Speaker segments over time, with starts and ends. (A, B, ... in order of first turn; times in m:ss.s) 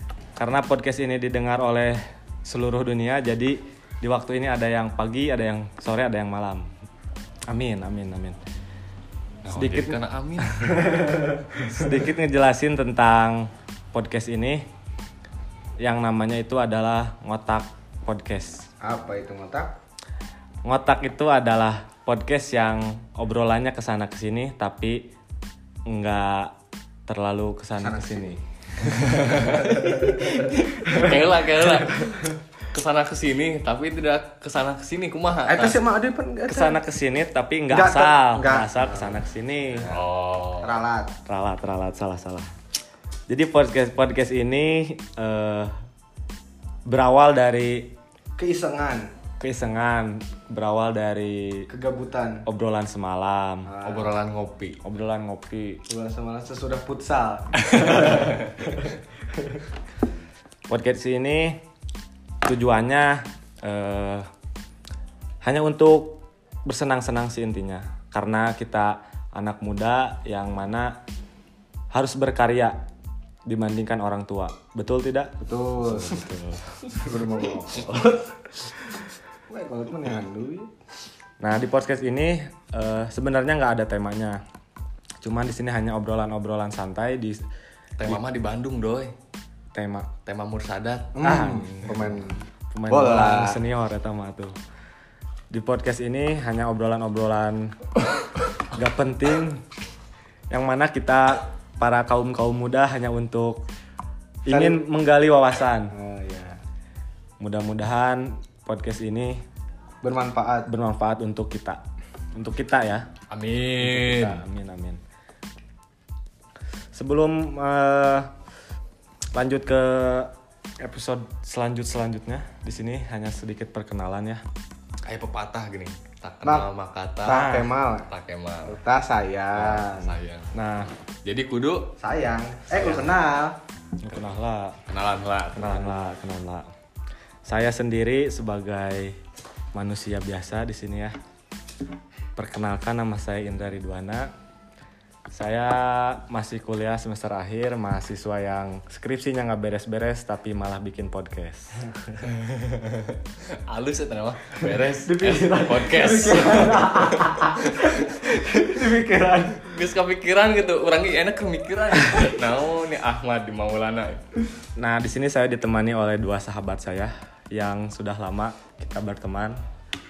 0:00.4-0:06.7 A
0:07.5-0:08.4 A
0:09.4-0:10.8 B
0:09.5-0:10.0 A
0:10.9-0:11.4 C
0:11.5-0:14.6 A
0:15.8-0:18.7 A
0:18.8-0:19.7 C
0:20.6-0:25.0 A
0:25.9-0:26.5 A
0:27.1-0:28.4 A
0:27.8-0:28.3 C
0:29.0-0:31.2 C
0:30.8-0:35.8 B
0:31.8-0:32.2 C
0:35.4-0:36.8 C
0:36.5-0:39.9 A
0:37.7-0:40.0 C
0:39.9-0:40.8 B
0:40.6-0:41.1 C
0:41.2-0:42.5 A
0:43.3-0:45.7 A
0:46.9-0:47.9 A
0:48.4-0:49.1 C
0:49.4-0:51.7 A
0:51.7-0:52.4 C
0:52.4-0:53.7 A
0:53.6-0:54.1 C
0:53.8-0:54.8 B
0:54.8-0:55.8 A
0:55.9-0:59.0 C
1:00.7-1:01.6 A
1:02.4-1:04.2 A
1:05.4-1:10.9 A
1:11.9-1:12.8 A
1:13.5-1:16.7 A
1:15.4-1:16.3 C
1:16.9-1:19.0 C
1:19.5-1:20.7 C
1:21.4-1:24.4 A
1:25.2-1:27.4 A
1:28.0-1:29.1 B
1:29.7-1:30.1 A
1:30.2-1:31.1 B
1:31.1-1:33.6 C
1:31.2-1:32.2 A
1:32.7-1:34.5 A
1:35.5-1:37.7 A
1:38.7-1:39.6 A
1:40.5-1:43.6 A
1:44.4-1:45.9 A
1:44.5-1:44.8 C
1:45.9-1:46.6 C
1:47.4-1:49.4 A
1:50.0-1:50.7 C
1:50.7-1:51.8 A
1:52.4-1:53.0 A
1:53.3-1:54.4 B
1:53.8-1:55.0 A
1:56.9-1:58.3 A
1:59.3-2:04.4 A
2:05.0-2:07.5 B
2:07.2-2:08.1 C
2:07.3-2:07.7 A
2:08.1-2:08.8 B
2:08.6-2:10.1 C
2:09.5-2:10.5 B
2:10.5-2:10.9 A
2:11.2-2:11.9 B
2:12.0-2:13.6 C
2:12.7-2:13.1 B
2:14.0-2:14.8 A
2:14.9-2:16.0 B
2:15.5-2:16.7 A
2:17.4-2:19.1 A
2:19.7-2:21.1 A
2:22.4-2:24.3 A
2:25.3-2:31.8 A
2:33.7-2:37.8 B
2:35.0-2:39.7 C
2:39.6-2:44.2 B
2:44.8-2:49.6 A